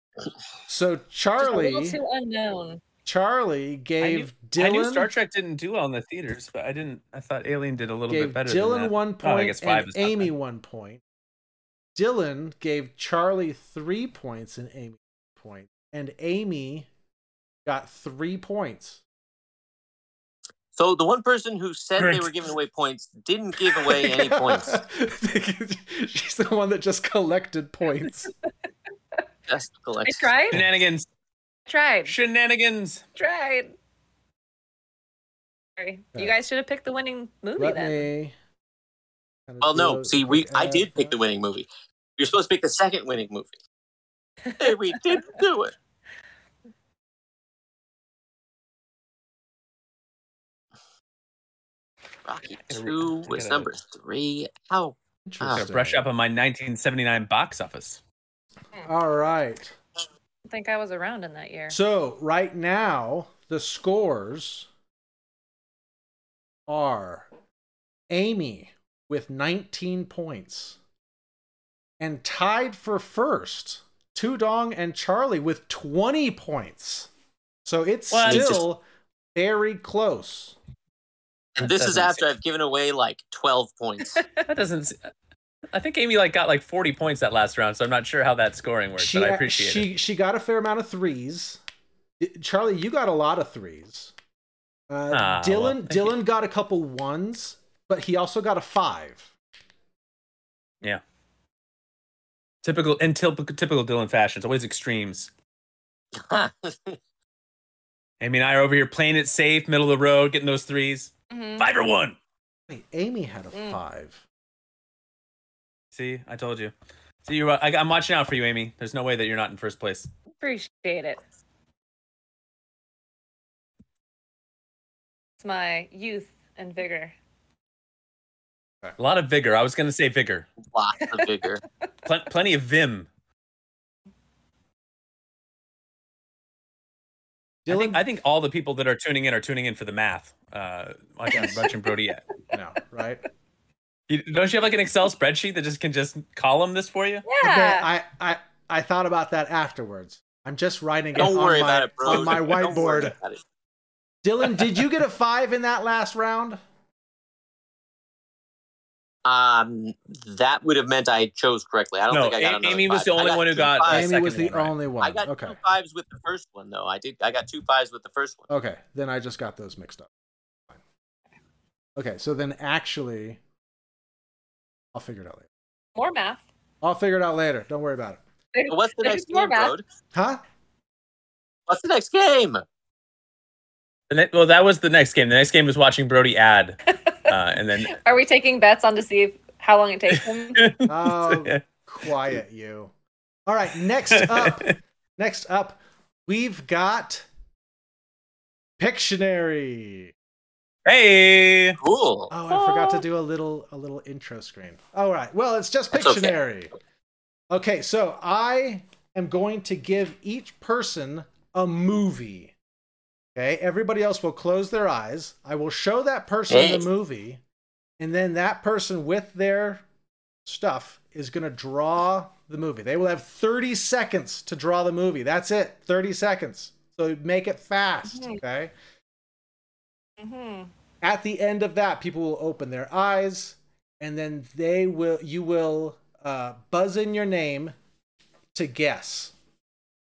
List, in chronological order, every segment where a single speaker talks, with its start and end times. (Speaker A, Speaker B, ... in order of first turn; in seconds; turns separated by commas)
Speaker A: 0.7-2.0, Speaker B: 1.4-2.8, Speaker A: 3.0-5.1, Speaker C: 4.0-10.3, Speaker A: 8.1-11.0, Speaker A: 11.9-16.9, Speaker A: 17.6-19.0, Speaker D: 20.7-24.8, Speaker C: 22.0-22.3, Speaker A: 23.7-28.3, Speaker D: 29.5-30.3, Speaker B: 30.0-30.6, Speaker C: 30.5-31.1, Speaker B: 31.7-32.1, Speaker C: 32.0-33.0, Speaker B: 33.1-33.7, Speaker B: 35.8-38.1, Speaker A: 37.6-38.3, Speaker A: 39.5-41.1, Speaker D: 39.6-43.5, Speaker D: 44.6-45.7, Speaker D: 52.2-55.6, Speaker C: 52.7-53.7, Speaker A: 55.2-56.0, Speaker C: 55.5-58.0, Speaker A: 58.9-59.8, Speaker B: 60.5-61.8, Speaker A: 61.7-64.7, Speaker A: 66.7-67.3, Speaker A: 68.1-70.8, Speaker A: 72.0-77.1, Speaker A: 77.6-78.8, Speaker C: 78.1-78.6, Speaker D: 78.3-78.6, Speaker A: 79.3-80.5, Speaker D: 81.6-84.2, Speaker C: 81.6-82.2, Speaker C: 84.4-85.0, Speaker C: 85.7-89.9, Speaker A: 89.0-91.6, Speaker A: 92.2-94.1, Speaker A: 94.9-99.3, Speaker C: 95.1-96.1, Speaker C: 102.6-105.3, Speaker D: 106.1-107.0, Speaker C: 108.2-112.2, Speaker B: 111.3-111.7, Speaker A: 112.7-114.2, Speaker B: 113.5-113.8, Speaker C: 115.9-116.7, Speaker C: 117.2-120.1, Speaker B: 120.4-121.2, Speaker B: 125.4-127.1, Speaker C: 129.0-130.5, Speaker D: 130.7-131.6, Speaker C: 132.0-133.1, Speaker A: 137.6-138.0, Speaker C: 137.7-142.2, Speaker A: 141.3-141.7, Speaker A: 142.5-143.2, Speaker C: 144.1-147.2, Speaker B: 147.2-147.9, Speaker A: 147.4-153.1, Speaker D: 151.2-153.4, Speaker A: 154.2-156.6, Speaker D: 159.2-164.1, Speaker C: 162.1-164.8, Speaker A: 163.9-165.6, Speaker D: 165.0-168.5, Speaker A: 168.5-170.1, Speaker A: 172.0-173.4, Speaker A: 174.9-175.5, Speaker B: 175.9-176.4, Speaker A: 176.8-178.2, Speaker B: 178.5-179.7, Speaker D: 178.7-179.8, Speaker A: 180.1-180.4, Speaker D: 181.7-182.6, Speaker C: 184.1-188.0, Speaker B: 187.9-190.7, Speaker C: 190.6-191.6, Speaker A: 190.8-192.9, Speaker A: 193.4-197.2, Speaker C: 194.1-194.6, Speaker A: 198.8-200.1, Speaker C: 200.8-201.8, Speaker D: 201.8-202.3, Speaker A: 202.3-206.7, Speaker B: 202.5-203.0, Speaker D: 205.9-206.3, Speaker A: 207.5-212.5, Speaker A: 213.3-217.4, Speaker D: 216.5-216.8, Speaker A: 218.0-219.8, Speaker A: 220.4-228.7, Speaker B: 228.1-228.4, Speaker B: 230.2-230.7, Speaker A: 231.0-237.7, Speaker A: 238.5-239.3